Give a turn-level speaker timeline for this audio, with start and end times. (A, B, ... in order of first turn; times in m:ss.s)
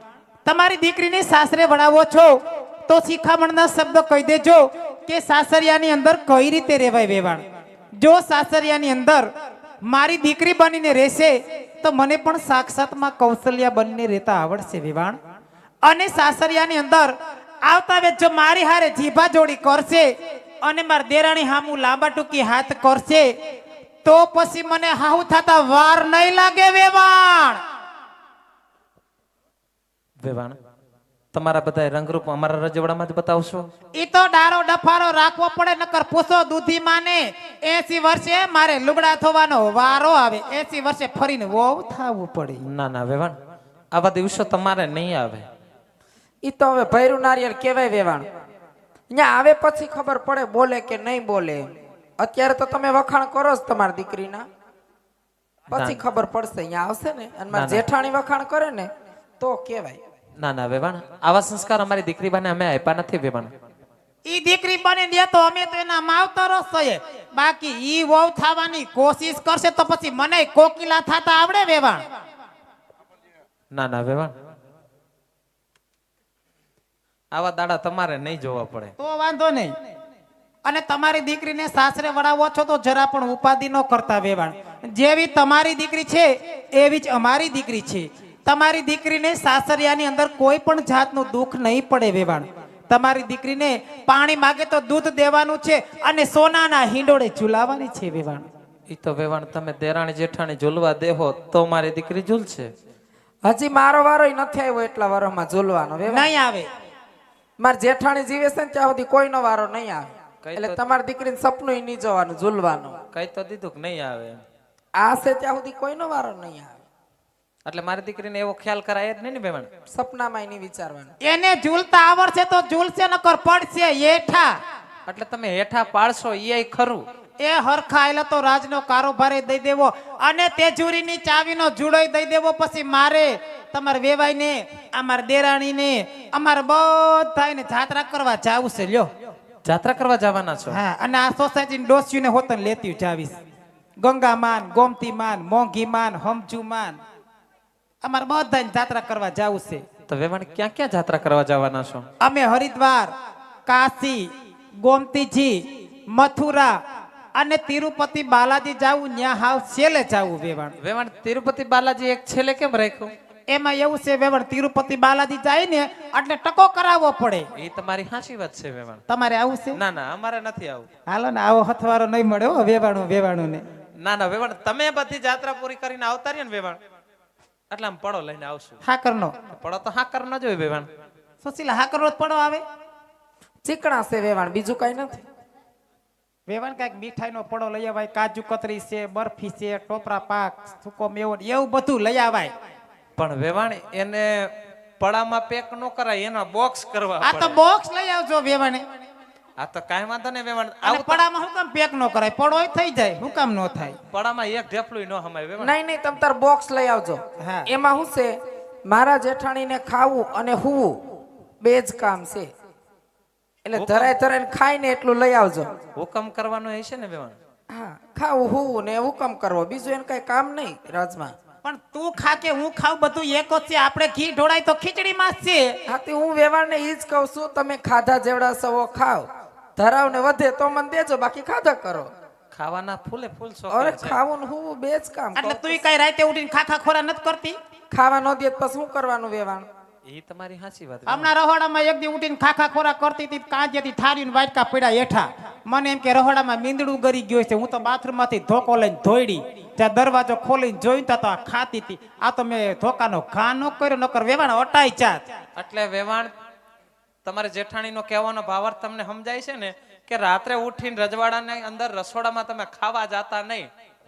0:00.4-0:07.4 A
0:08.0-0:09.3 A
0:09.9-0:15.2 A
0:15.8-0:23.3 A
0:24.0-0:27.6 A
0:30.2-0:30.6 B
0:31.3-0:33.7 B
0:34.0-0:42.6 A
0:42.6-0:43.4 B
0:43.9-0:45.5 B
0:46.4-0:48.3 C
0:49.1-0:54.5 C
0:55.7-1:00.0 C
0:55.7-0:56.0 B
0:57.5-0:57.8 B
1:00.4-1:03.5 B
1:04.2-1:12.0 A
1:13.7-1:14.3 B
1:17.3-1:18.9 B
1:19.0-1:19.7 A
1:20.6-1:38.5 A
1:38.9-1:42.7 B
1:43.4-1:46.3 C
1:46.1-1:46.7 A
1:47.6-1:53.0 C
1:50.4-1:50.8 B
1:53.1-1:54.4 B
1:55.0-1:56.8 C
1:57.6-1:59.7 B
1:59.9-2:01.1 C
2:01.2-2:04.6 A
2:05.1-2:07.0 B
2:07.4-2:19.1 A
2:19.6-2:20.8 B
2:20.7-2:23.4 A
2:24.0-2:27.0 A
2:28.0-2:29.8 A
2:30.1-2:32.1 B
2:32.2-2:33.1 A
2:33.7-2:34.3 A
2:34.8-2:36.8 A
2:37.4-2:40.8 A
2:40.8-2:43.1 B
2:43.5-2:47.5 A
2:47.6-2:49.0 B
2:49.1-2:49.8 A
2:49.7-2:50.9 B
2:51.1-2:53.6 A
2:54.0-2:56.8 B
2:57.7-2:58.8 B
2:58.8-2:59.3 A
2:59.6-3:00.9 B
3:01.4-3:02.6 A
3:03.6-3:05.2 C
3:06.5-3:12.5 A
3:13.2-3:17.6 B
3:17.2-3:18.8 A
3:19.6-3:21.2 B
3:20.8-3:24.0 A
3:24.1-3:25.8 B
3:25.6-3:31.0 C
3:27.4-3:27.7 A
3:31.6-3:32.5 C
3:33.6-3:35.7 C
3:33.8-3:34.1 B
3:36.0-3:37.4 B
3:37.7-3:41.3 C
3:41.6-3:45.8 A
3:45.9-3:52.1 C
3:52.5-3:54.2 B
3:53.7-3:55.8 C
3:55.4-3:57.6 A
3:57.9-3:59.7 C
4:00.1-4:01.3 B
4:01.1-4:15.3 A
4:15.6-4:16.3 B
4:17.2-4:23.7 B